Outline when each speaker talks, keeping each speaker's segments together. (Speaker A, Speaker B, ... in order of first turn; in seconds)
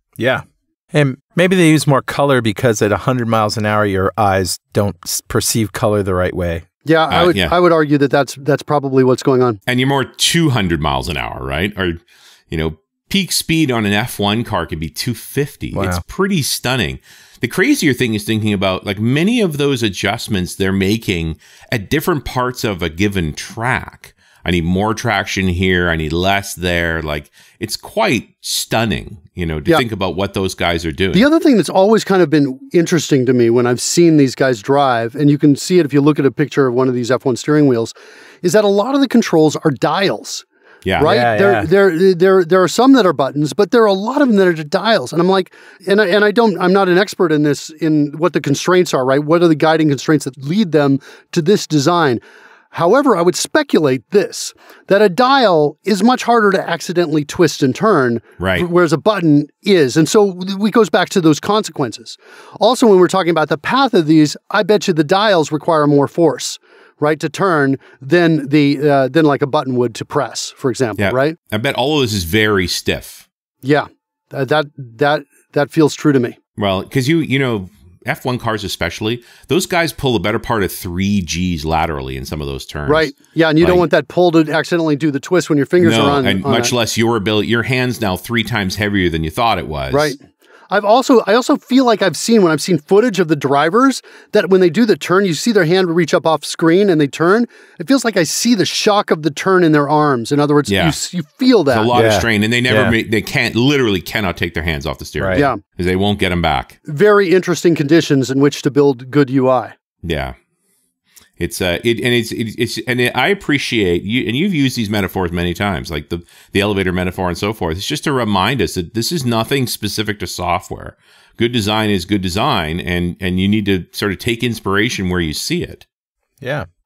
Speaker A: 0.2-6.7, 15.7-16.0, 41.0-41.7, 101.9-103.0, 105.2-105.5, 126.4-126.7
Speaker B: 6.8-9.6, 31.1-40.5, 41.0-52.2, 52.7-71.4, 73.6-76.4, 82.9-86.7, 89.9-101.9, 106.9-109.8
Speaker C: 7.1-7.5, 9.7-12.0, 12.5-31.3, 40.9-41.1, 58.4-58.7, 71.0-73.2, 76.6-83.9, 85.8-90.2, 100.7-101.0, 101.7-106.8, 110.0-110.3, 111.4-125.8